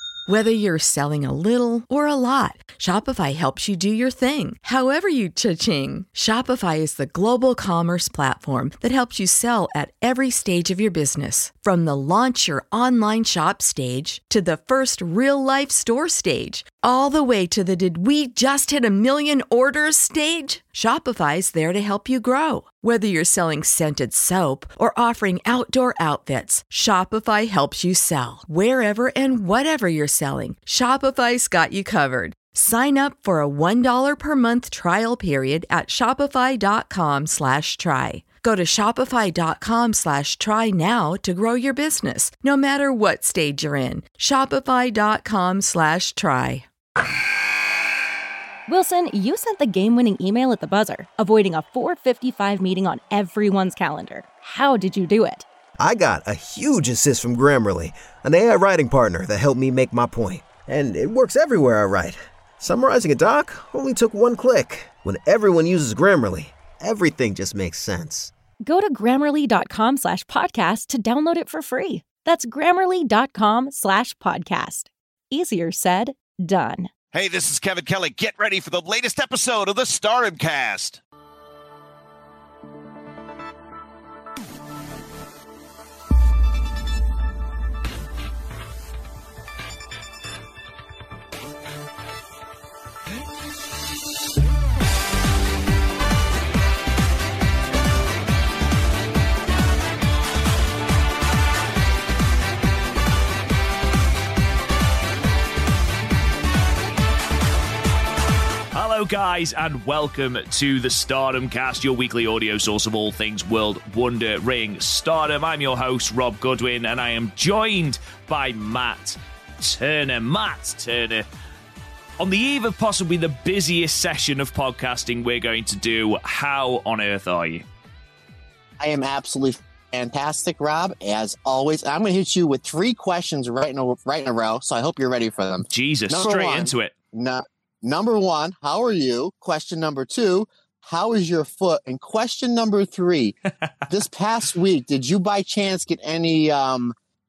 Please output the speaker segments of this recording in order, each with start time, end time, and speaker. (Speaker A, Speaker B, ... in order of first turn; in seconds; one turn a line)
Speaker A: 0.3-46.7
Speaker B: 48.7-55.5
Speaker C: 55.8-68.3
Speaker B: 68.6-76.9
Speaker D: 77.1-81.0
Speaker E: 108.7-121.3
Speaker E: 122.2-127.7
Speaker F: 128.8-143.4
Speaker E: 135.7-136.9
Speaker F: 143.9-146.9